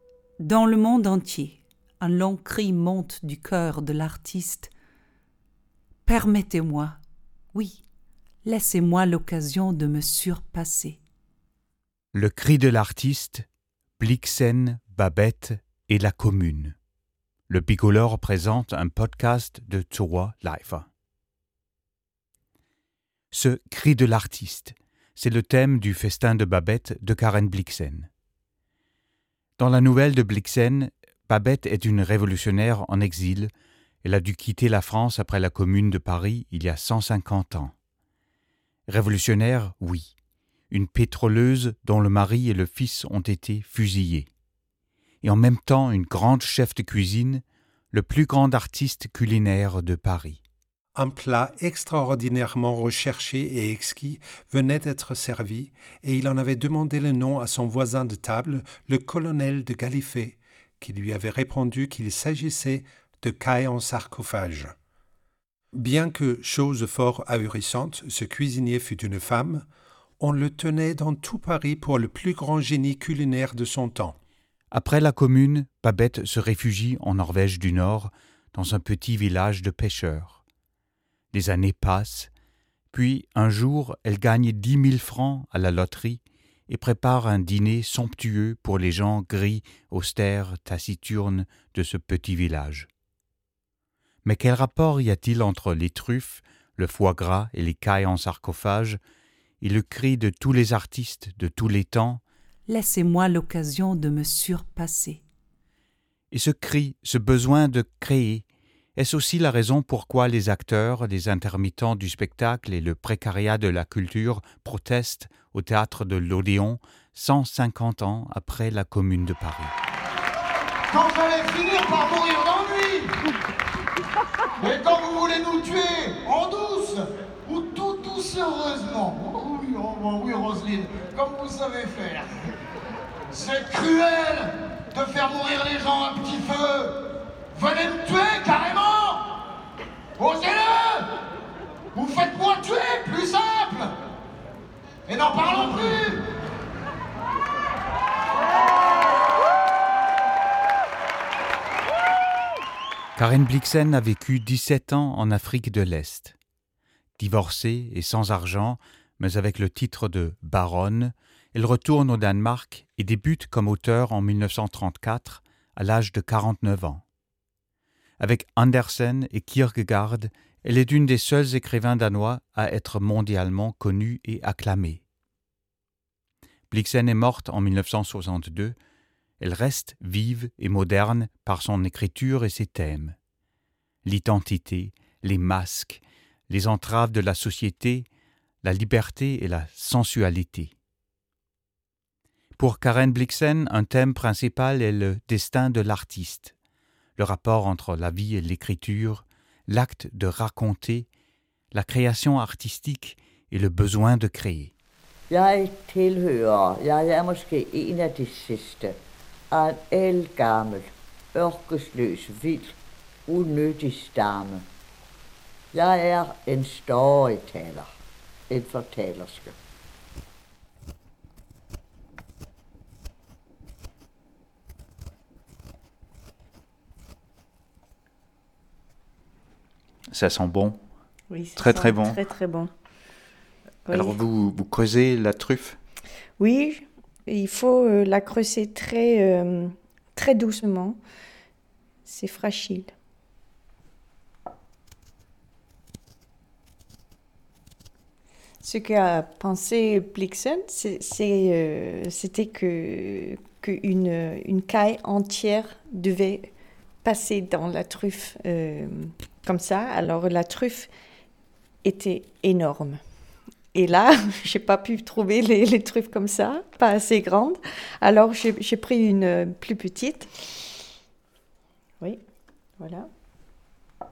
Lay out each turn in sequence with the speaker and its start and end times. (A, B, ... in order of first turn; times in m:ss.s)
0:00.4-0:04.7 A
0:06.1-0:07.0 A
0:07.5-0:07.8 A
0:08.4-0:11.0 A
0:12.1-0:13.4 B
0:14.0-0:16.8 B
0:17.5-0:20.9 B
0:23.3-0:28.1 B
0:29.6-0:33.5 B
0:34.0-0:37.8 B
0:38.9-0:40.1 B
0:40.7-0:44.3 B
0:45.2-0:50.4 B
0:51.0-1:04.8 C
1:05.7-1:09.7 C
1:10.2-1:14.2 C
1:14.7-1:20.4 B
1:21.3-1:22.3 B
1:22.9-1:32.9 B
1:34.2-1:39.0 B
1:39.6-1:42.2 B
1:42.7-1:45.2 A
1:46.3-1:48.4 B
1:49.0-1:59.7 B
2:00.9-2:03.1 D
2:04.6-2:12.3 D
2:13.3-2:17.0 D
2:17.5-2:19.3 D
2:20.2-2:21.2 D
2:21.9-2:23.9 D
2:25.1-2:26.2 D
2:33.2-2:36.4 B
2:37.2-2:47.0 B
2:48.2-2:55.0 B
2:56.7-2:58.8 B
2:59.4-3:03.2 B
3:04.0-3:08.1 B
3:08.6-3:10.7 B
3:12.6-3:16.5 B
3:17.2-3:21.1 B
3:21.7-3:24.7 B
3:25.3-3:28.9 E
3:29.5-3:32.8 E
3:33.3-3:34.6 E
3:35.7-3:37.9 E
3:38.5-3:39.6 E
3:50.1-3:50.8 B
3:51.3-3:52.7 F
3:51.6-3:52.2 B
3:53.9-3:54.2 F
3:53.9-3:55.8 B
3:56.4-4:01.0 F
4:02.1-4:02.9 F
4:08.6-4:16.5 F
4:17.0-4:20.9 F
4:21.8-4:23.0 F
4:23.7-4:30.3 F
4:32.8-4:33.1 F